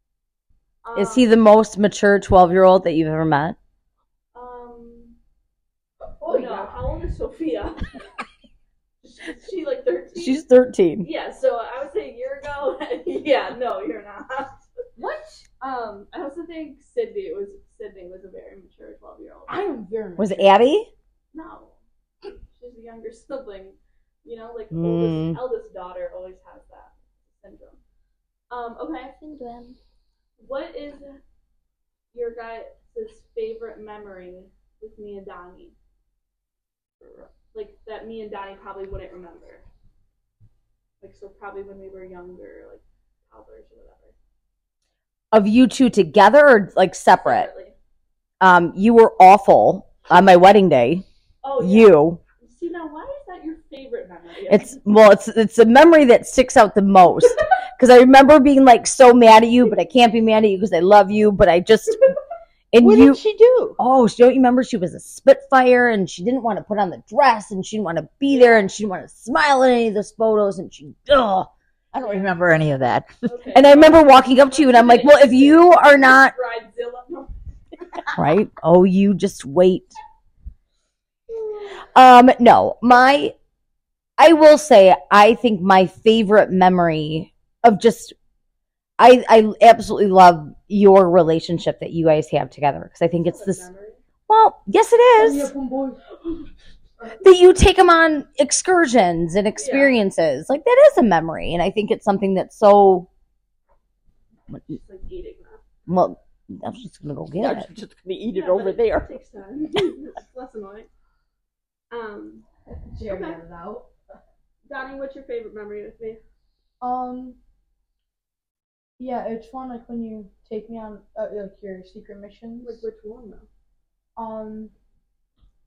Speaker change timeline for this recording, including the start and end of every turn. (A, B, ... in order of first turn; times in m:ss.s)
0:00.8-0:01.3 A
0:00.9-0:03.6 B
0:04.3-0:05.2 A
0:06.2-0:06.8 C
0:06.3-0:08.0 A
0:09.0-0:10.4 A
0:10.2-0:11.1 B
0:11.0-0:14.7 A
0:15.0-0:15.4 C
0:15.6-0:19.6 A
0:19.5-0:20.5 C
0:20.2-0:20.9 B
0:21.3-0:21.8 A
0:22.3-0:27.8 A
0:24.7-0:25.4 B
0:28.5-0:29.1 A
0:29.2-0:29.8 C
0:30.4-0:31.2 A
0:32.1-0:35.7 A
0:37.5-0:39.6 A
0:41.0-0:44.1 A
0:45.3-0:47.5 B
0:47.1-0:47.7 A
0:48.4-0:51.0 B
0:51.4-0:54.8 A
0:51.6-0:52.2 B
0:54.5-1:02.1 B
1:02.7-1:03.2 B
1:02.8-1:03.8 D
1:03.8-1:11.5 B
1:08.3-1:08.7 A
1:11.9-1:13.3 D
1:13.2-1:17.3 A
1:13.5-1:16.3 B
1:18.2-1:20.0 B
1:21.3-1:21.7 A
1:21.8-1:23.3 B
1:24.2-1:28.1 B
1:29.0-1:33.6 B
1:33.2-1:34.0 A
1:34.3-1:35.5 B
1:35.2-1:36.2 C
1:37.2-1:43.1 B
1:39.6-1:40.0 A
1:44.6-1:45.6 A
1:45.9-1:47.7 B
1:47.4-1:49.1 D
1:48.3-1:50.9 A
1:51.9-1:52.4 A
1:52.8-1:53.9 C
1:53.0-1:53.4 A
1:54.7-1:56.2 A
1:56.8-1:57.4 C
1:59.0-2:02.8 C
2:02.6-2:03.5 A
2:04.2-2:04.7 C